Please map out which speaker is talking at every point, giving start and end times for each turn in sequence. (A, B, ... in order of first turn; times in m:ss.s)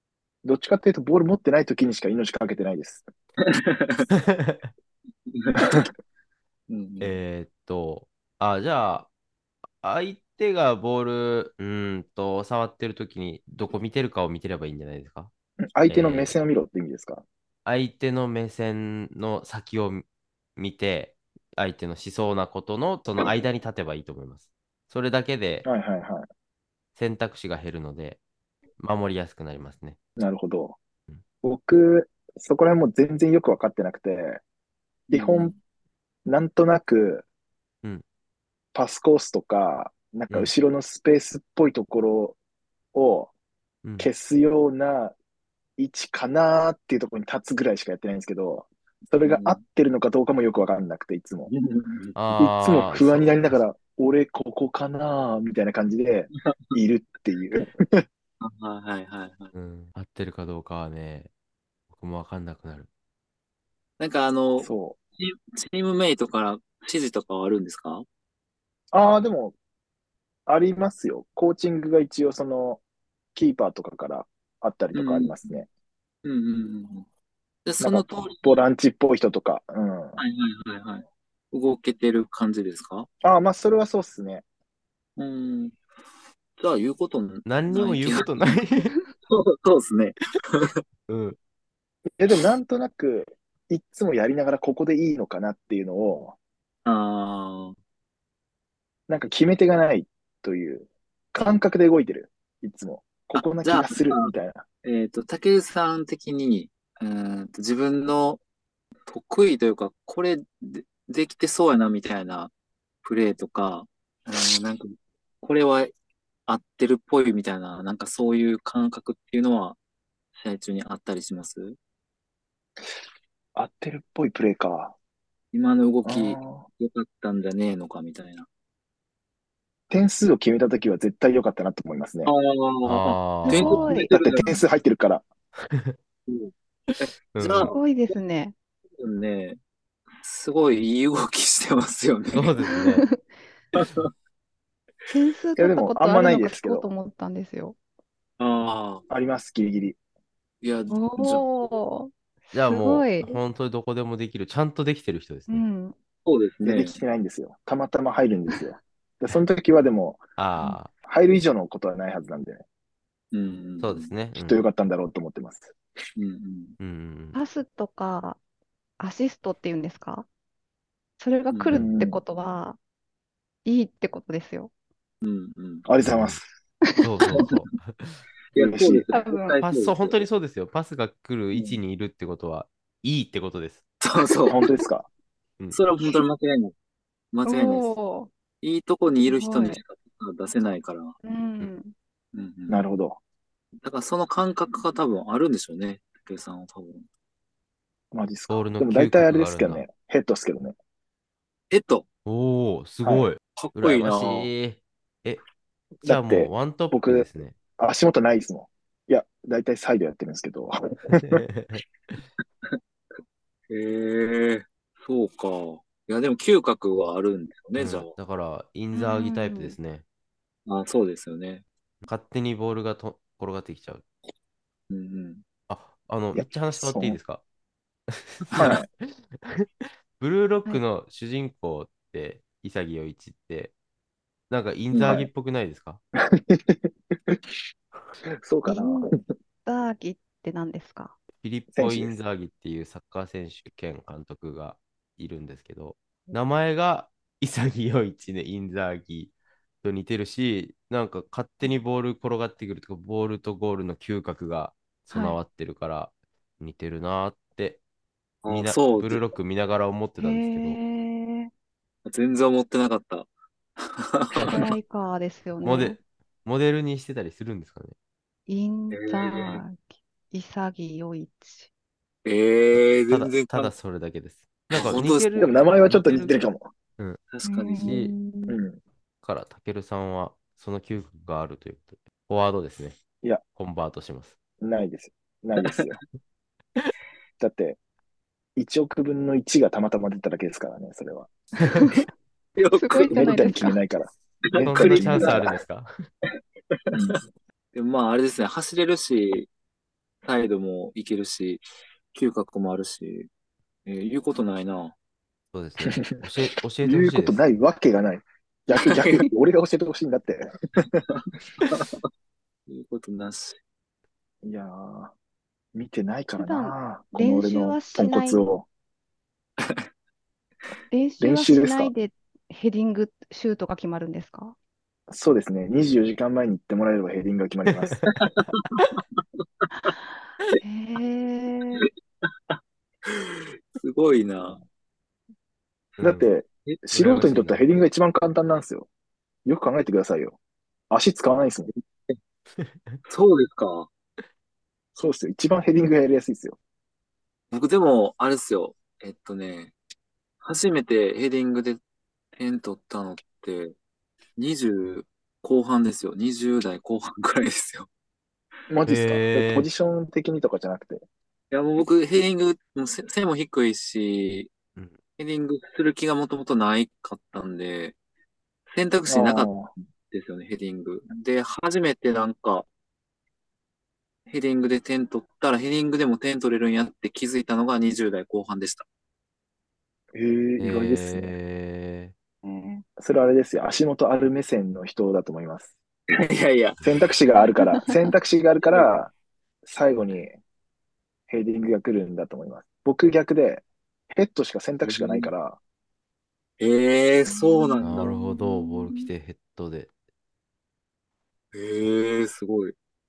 0:00.4-0:03.1 A
0:03.4-0:04.1 B
0:04.1-0:04.7 C
0:05.3-0:05.9 B
0:05.6-0:05.9 A
0:06.7-0:07.2 B
0:07.0-0:09.1 C
0:09.8-0:15.3 C
0:15.7-0:17.2 A
0:15.9-0:16.4 C
0:17.6-0:20.1 C
0:20.6-0:25.7 C
0:25.6-0:26.3 A
0:27.0-0:28.2 C
0:28.8-0:30.0 C
0:30.2-0:30.8 A
0:31.4-0:34.4 A
0:35.1-0:35.6 B
0:35.1-0:35.5 A
0:36.3-0:37.2 A
0:38.7-0:42.4 A
0:42.9-0:43.3 A
0:44.0-0:45.2 A
0:45.8-0:51.5 A
0:49.2-0:49.6 B
0:51.5-0:52.2 B
0:52.2-0:53.6 C
0:52.4-0:58.0 A
0:58.4-0:59.5 B
0:59.6-1:01.3 C
1:01.9-1:02.9 C
1:04.0-1:08.1 B
1:04.6-1:05.0 A
1:08.9-1:09.6 A
1:10.5-1:12.8 A
1:13.4-1:15.7 A
1:14.9-1:15.6 B
1:16.2-1:17.1 B
1:17.7-1:18.6 B
1:17.8-1:20.2 A
1:20.2-1:23.1 B
1:23.2-1:24.4 A
1:25.2-1:25.8 B
1:26.6-1:28.6 B
1:27.4-1:29.0 C
1:29.2-1:30.8 B
1:31.1-1:31.4 C
1:32.2-1:36.4 A
1:36.8-1:37.8 B
1:39.1-1:44.6 A
1:43.4-1:44.3 B
1:44.8-1:48.4 B
1:49.1-1:52.5 B
1:53.0-1:55.9 B
1:56.5-1:59.8 B
2:00.4-2:01.8 B
2:03.6-2:04.9 A
2:05.5-2:08.5 B
2:06.0-2:06.6 A
2:09.9-2:12.3 A
2:12.2-2:14.6 B
2:12.8-2:13.8 C
2:13.4-2:14.1 D
2:13.8-2:15.2 A
2:15.6-2:16.0 C
2:16.3-2:17.8 B
2:17.3-2:17.8 C
2:17.7-2:18.5 D
2:19.0-2:19.6 B
2:20.2-2:22.6 B
2:22.3-2:23.1 C
2:22.7-2:23.2 D
2:23.8-2:24.1 B
2:25.1-2:27.8 D
2:25.6-2:26.9 A
2:28.4-2:29.0 B
2:29.1-2:30.0 A
2:30.6-2:31.5 B
2:30.9-2:33.4 D
2:32.5-2:35.6 C
2:35.5-2:36.0 D
2:36.3-2:37.0 B
2:36.6-2:40.2 A
2:40.4-2:40.9 C
2:41.1-2:42.6 A
2:43.3-2:44.1 B
2:43.8-2:44.6 C
2:44.4-2:45.7 A
2:46.2-2:46.8 B
2:46.8-2:47.4 C
2:47.3-2:48.4 D
2:49.0-2:50.3 D
2:51.2-2:52.8 D
2:51.5-2:51.8 B
2:51.7-2:52.2 A
2:53.6-2:54.7 D
2:55.2-2:55.8 B
2:55.8-2:56.5 A
2:56.0-2:56.4 C
2:56.8-2:57.5 D
2:57.0-2:58.2 C
2:57.3-2:57.6 B
2:58.5-3:00.3 B
2:58.6-2:59.1 A
2:59.1-2:59.6 D
2:59.6-3:03.8 C
3:01.5-3:01.8 B
3:04.0-3:04.6 B
3:04.5-3:05.1 A
3:05.7-3:06.7 B
3:07.3-3:08.0 B
3:07.5-3:08.3 D
3:08.6-3:11.2 B
3:09.3-3:09.8 D
3:11.2-3:11.9 D
3:12.3-3:12.8 B
3:12.7-3:13.2 A
3:13.8-3:17.1 B
3:18.1-3:20.8 A
3:18.5-3:19.8 C
3:21.7-3:22.1 B
3:22.2-3:25.4 C
3:23.6-3:24.5 B
3:26.0-3:31.4 A
3:26.0-3:27.6 C
3:31.2-3:31.8 C
3:33.7-3:38.1 B
3:37.8-3:40.0 C
3:38.9-3:39.8 D
3:40.7-3:41.6 B
3:42.0-3:44.0 C
3:44.9-3:45.4 B
3:45.7-3:47.4 C
3:46.3-3:47.2 A
3:48.1-3:53.7 C
3:48.5-3:48.8 B
3:48.6-3:48.9 A
3:54.5-3:56.0 C
3:54.9-3:55.2 B
3:55.0-3:55.3 A
3:56.2-3:57.4 A
3:58.4-3:59.2 A
3:58.7-3:59.1 D
3:59.6-4:01.2 D
4:01.4-4:17.8 C
4:01.7-4:02.2 A
4:15.1-4:15.4 D
4:18.4-4:19.4 B
4:18.5-4:20.8 C
4:20.2-4:21.5 D
4:22.0-4:24.7 B
4:24.4-4:24.7 C
4:24.5-4:26.0 D
4:25.6-4:28.0 C
4:28.5-4:31.7 D
4:28.9-4:29.6 B
4:32.2-4:33.7 B
4:33.1-4:36.4 C
4:34.7-4:36.3 B
4:35.4-4:36.7 A
4:37.3-4:38.0 B
4:37.4-4:38.6 D
4:37.8-4:38.1 C
4:38.5-4:38.8 A
4:39.2-4:43.0 C
4:43.6-4:44.4 C
4:44.6-4:46.0 A
4:45.6-4:45.9 B
4:47.4-4:47.8 A
4:48.6-4:51.3 A
4:52.6-4:53.5 B
4:52.7-4:53.8 D
4:53.1-4:55.5 A
4:54.5-4:55.6 B
4:54.6-4:55.9 C
4:56.9-4:57.2 B
4:56.9-4:57.2 A
4:57.7-4:59.5 B
5:00.2-5:01.6 B
5:02.1-5:03.3 B
5:03.9-5:05.0 B
5:05.5-5:07.4 C
5:05.8-5:06.1 A
5:06.8-5:11.0 A
5:08.8-5:09.3 B
5:11.1-5:12.0 B
5:12.7-5:13.6 B
5:14.4-5:15.1 A
5:15.7-5:18.7 A
5:16.4-5:18.4 D
5:19.6-5:19.9 B
5:20.9-5:24.6 D
5:21.2-5:21.9 A
5:25.1-5:28.1 A
5:28.1-5:29.2 B
5:29.8-5:31.9 D
5:32.5-5:34.6 B
5:36.0-5:36.3 C
5:36.0-5:38.9 A
5:36.9-5:37.6 C
5:39.5-5:40.4 A
5:40.9-5:41.7 A
5:41.8-5:42.2 B
5:42.6-5:43.0 C
5:43.1-5:43.9 B
5:45.0-5:46.6 A
5:47.5-5:49.7 B
5:50.4-5:51.8 B
5:52.4-5:53.8 B
5:54.4-5:57.9 B
5:58.7-6:01.0 A
5:58.9-5:59.7 C
6:01.5-6:04.5 B
6:05.2-6:08.0 B
6:08.7-6:12.7 B
6:09.1-6:09.7 A
6:14.3-6:18.8 B
6:20.2-6:21.3 A
6:20.6-6:22.1 C
6:22.4-6:22.8 D
6:23.0-6:25.7 A
6:26.1-6:26.8 B
6:26.8-6:29.1 A
6:28.6-6:28.9 B
6:29.6-6:30.4 A
6:31.3-6:35.6 A
6:34.8-6:35.3 B
6:36.6-6:38.1 B
6:37.3-6:39.1 D
6:37.8-6:39.9 C
6:41.5-6:42.7 B